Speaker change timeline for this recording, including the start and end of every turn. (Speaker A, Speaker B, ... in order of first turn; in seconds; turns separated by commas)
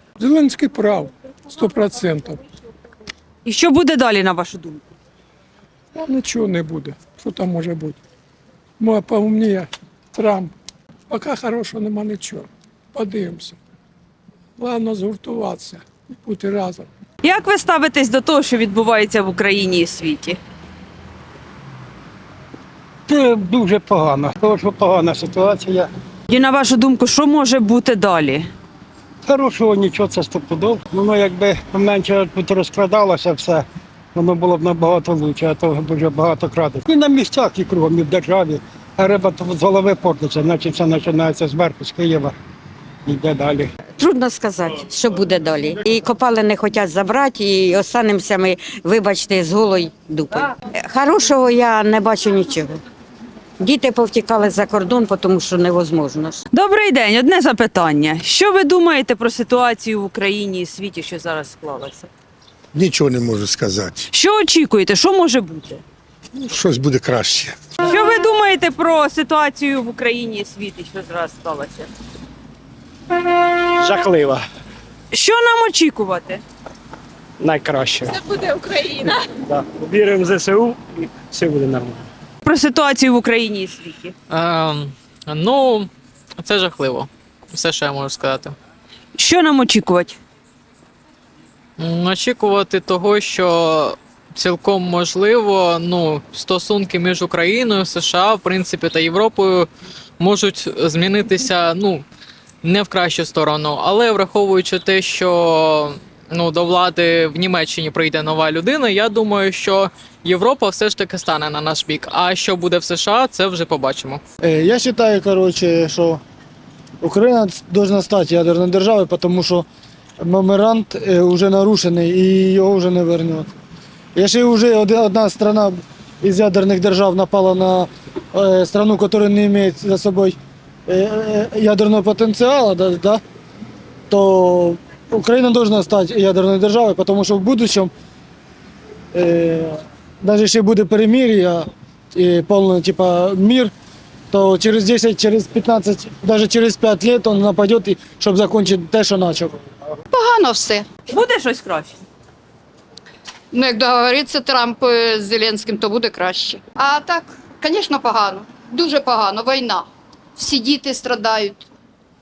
Speaker A: 0.2-2.4, Speaker B: 3.4-4.8, Speaker A: 6.0-8.0, Speaker A: 8.8-10.5, Speaker A: 11.1-13.6, Speaker A: 14.6-16.9, Speaker B: 17.2-20.4, Speaker C: 23.1-25.9, Speaker B: 26.3-28.5, Speaker C: 29.3-42.3, Speaker C: 43.0-43.7, Speaker D: 44.0-52.8, Speaker D: 53.6-56.4, Speaker B: 56.5-62.1, Speaker E: 62.7-64.0, Speaker B: 64.1-65.8, Speaker E: 66.4-67.6, Speaker B: 67.8-71.9, Speaker F: 73.8-74.5, Speaker B: 75.1-76.4, Speaker F: 77.4-78.2, Speaker B: 78.4-79.1, Speaker F: 79.5-82.0, Speaker B: 82.4-84.1, Speaker G: 84.3-88.5, Speaker B: 89.2-90.2, Speaker G: 91.8-99.7, Speaker G: 100.2-102.0, Speaker G: 102.6-114.2, Speaker H: 114.4-116.2, Speaker H: 117.0-119.7, Speaker H: 120.2-123.5, Speaker H: 124.1-133.2, Speaker H: 134.1-137.9, Speaker H: 139.1-143.7, Speaker H: 144.3-149.6, Speaker I: 150.1-150.8, Speaker B: 151.1-152.0, Speaker I: 153.5-159.8, Speaker I: 160.4-161.7